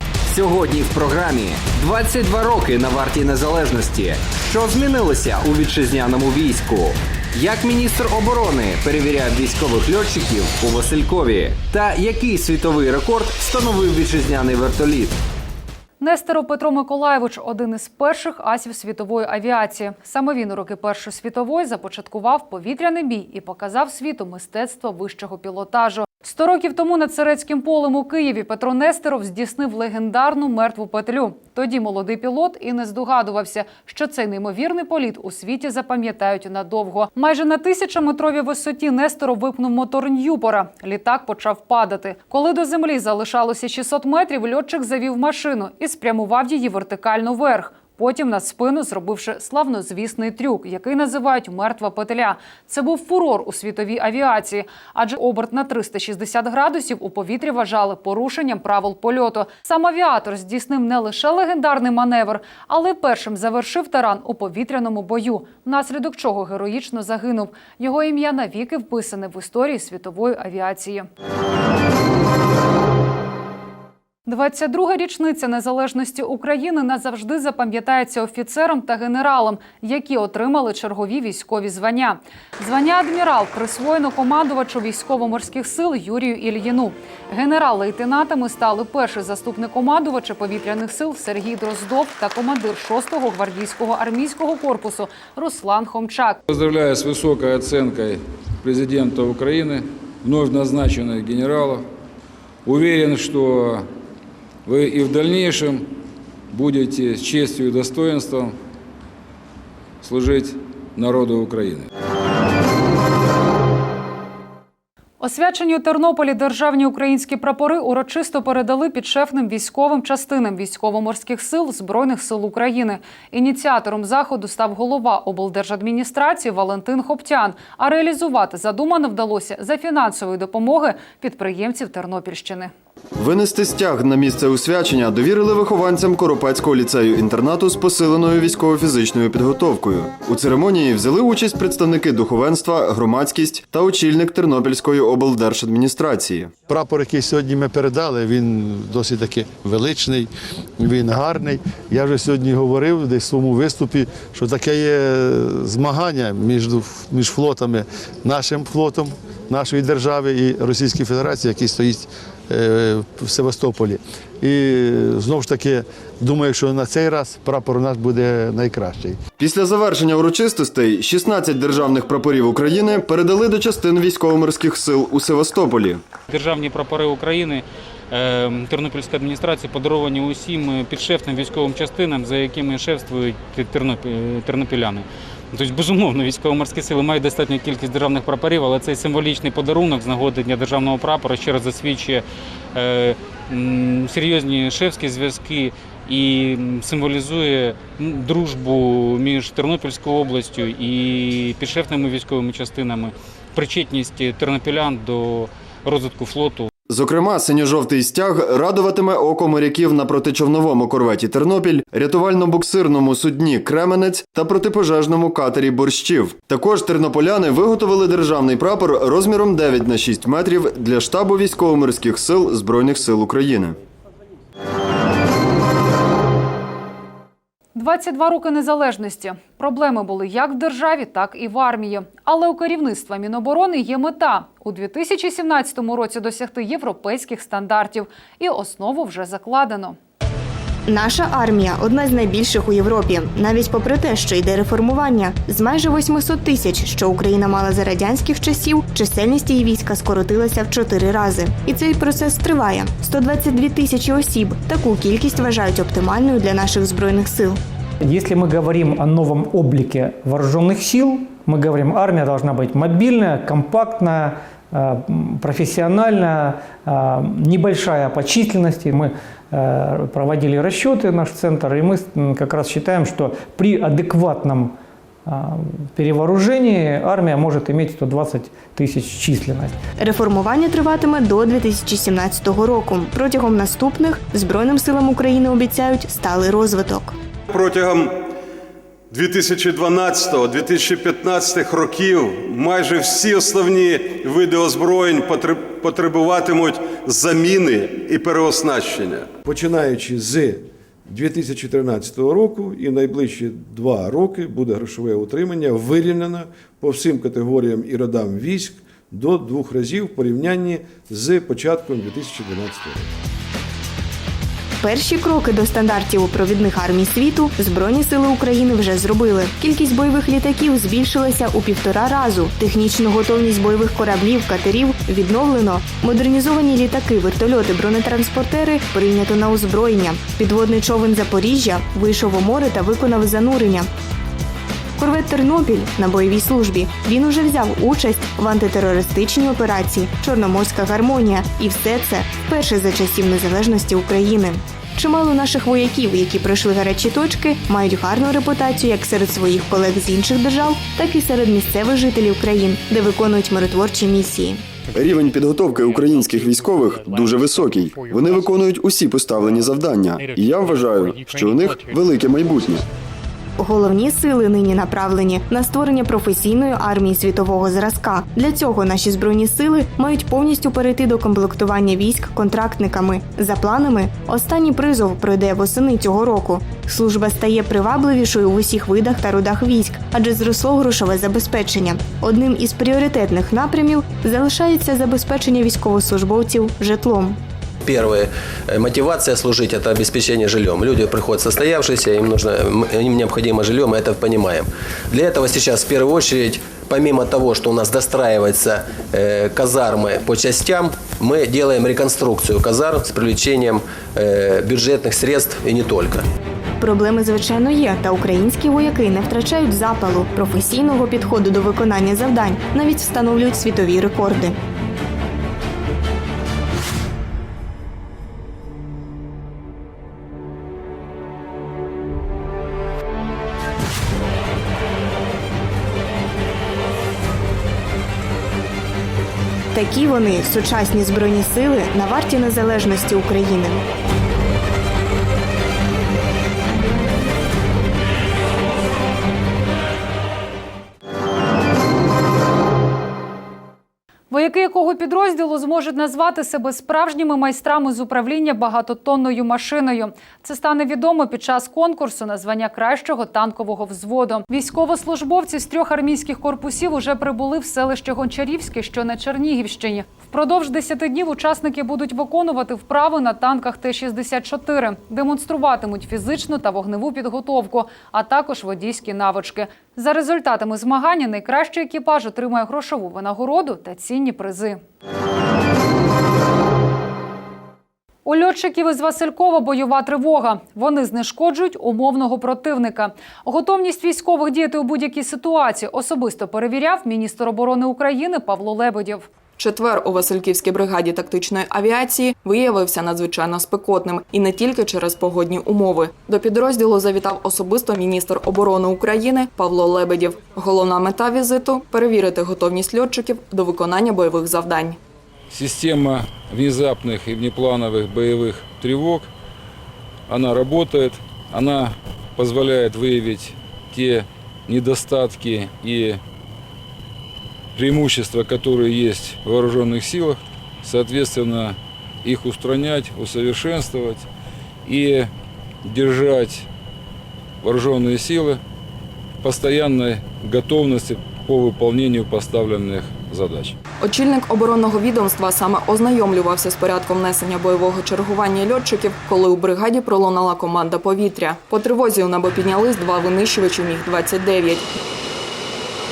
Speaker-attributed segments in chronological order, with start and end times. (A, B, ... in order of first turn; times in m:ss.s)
0:00.3-0:15.2 A
0:16.0-1:11.1 B
1:14.3-1:36.4 B
1:36.5-1:41.8 C
1:42.6-1:43.9 C
1:44.6-1:45.9 C
1:46.5-1:48.6 C
1:50.0-1:51.9 C
1:55.2-2:12.7 B
2:13.2-2:26.5 D
2:26.6-2:49.2 E
2:49.4-2:56.0 D
2:56.3-3:26.7 F
3:26.9-3:43.8 D
3:47.8-4:00.0 B
4:00.9-4:17.6 G
4:18.0-4:34.7 H
4:35.3-4:39.8 H
4:40.0-4:47.2 G
4:47.5-4:48.2 I
4:49.1-4:59.3 I
4:59.4-5:13.1 J
5:14.8-5:33.9 G
5:35.0-5:54.6 G
5:54.9-6:02.8 D
6:03.6-6:27.4 G
6:27.8-6:46.2 K
6:46.8-6:54.6 G
7:09.7-7:13.8 G
7:24.3-7:54.8 B
7:58.2-8:09.2 B
8:09.6-8:25.0 L
8:25.5-8:29.3 C
8:30.3-8:36.2 C
8:37.8-8:44.3 C
8:44.8-8:45.3 C
8:45.8-8:46.7 C
8:47.6-8:48.6 C
8:49.4-8:53.8 C
8:54.0-9:04.9 L